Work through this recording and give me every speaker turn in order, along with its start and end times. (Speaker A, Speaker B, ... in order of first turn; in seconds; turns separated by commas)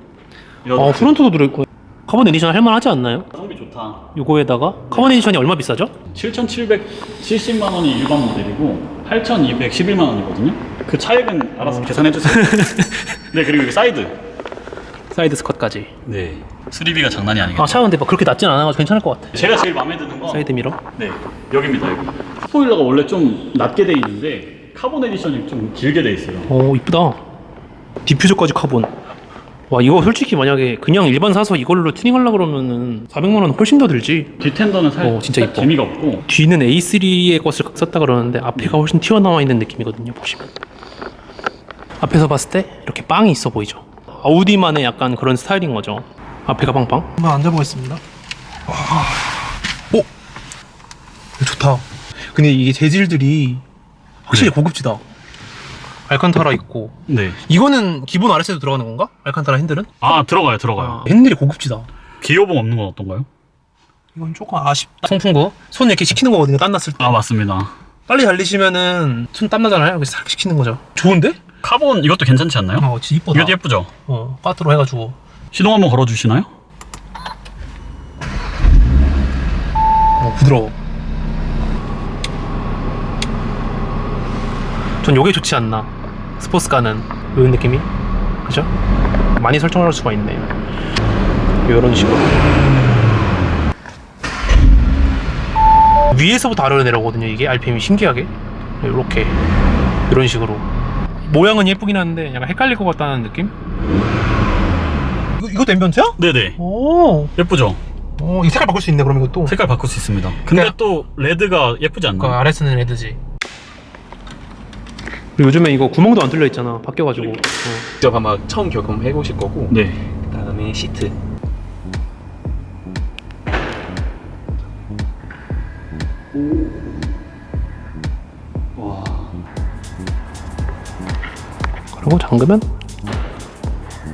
Speaker A: 0.6-1.2, Speaker B: 0.8-3.3, Speaker A: 3.3-4.1, Speaker B: 4.1-5.9, Speaker A: 4.9-5.2, Speaker A: 6.1-12.7, Speaker B: 11.6-13.2, Speaker A: 13.3-14.2, Speaker B: 15.1-15.9, Speaker A: 16.1-17.9, Speaker B: 17.5-19.5, Speaker A: 19.3-26.5, Speaker B: 20.3-20.8, Speaker B: 26.5-27.2, Speaker B: 28.0-28.9, Speaker B: 29.7-34.3, Speaker A: 34.4-36.2, Speaker B: 35.0-35.7, Speaker B: 36.3-40.5, Speaker B: 42.0-48.0, Speaker B: 48.7-49.4, Speaker B: 51.4-53.6, Speaker B: 54.3-55.0, Speaker B: 56.1-56.9, Speaker A: 57.1-57.4, Speaker B: 57.5-60.2, Speaker A: 60.0-61.0, Speaker B: 60.8-61.9, Speaker A: 62.2-63.3, Speaker B: 64.1-67.2, Speaker A: 67.0-67.7, Speaker B: 68.1-71.4, Speaker A: 71.6-73.9, Speaker B: 72.8-75.2, Speaker A: 75.5-76.5, Speaker B: 80.2-80.8, Speaker B: 85.0-87.9, Speaker B: 89.4-90.5, Speaker B: 91.6-92.4, Speaker B: 96.1-99.3, Speaker B: 100.1-100.7, Speaker B: 101.2-103.5, Speaker B: 105.4-107.3, Speaker A: 106.2-106.6, Speaker A: 107.3-107.8, Speaker B: 108.2-109.5, Speaker A: 109.5-112.4, Speaker B: 110.5-110.7, Speaker B: 112.2-113.2, Speaker B: 115.4-117.9, Speaker C: 118.0-119.7, Speaker A: 119.7-120.0, Speaker C: 120.3-121.1, Speaker A: 128.8-129.3, Speaker B: 131.9-132.7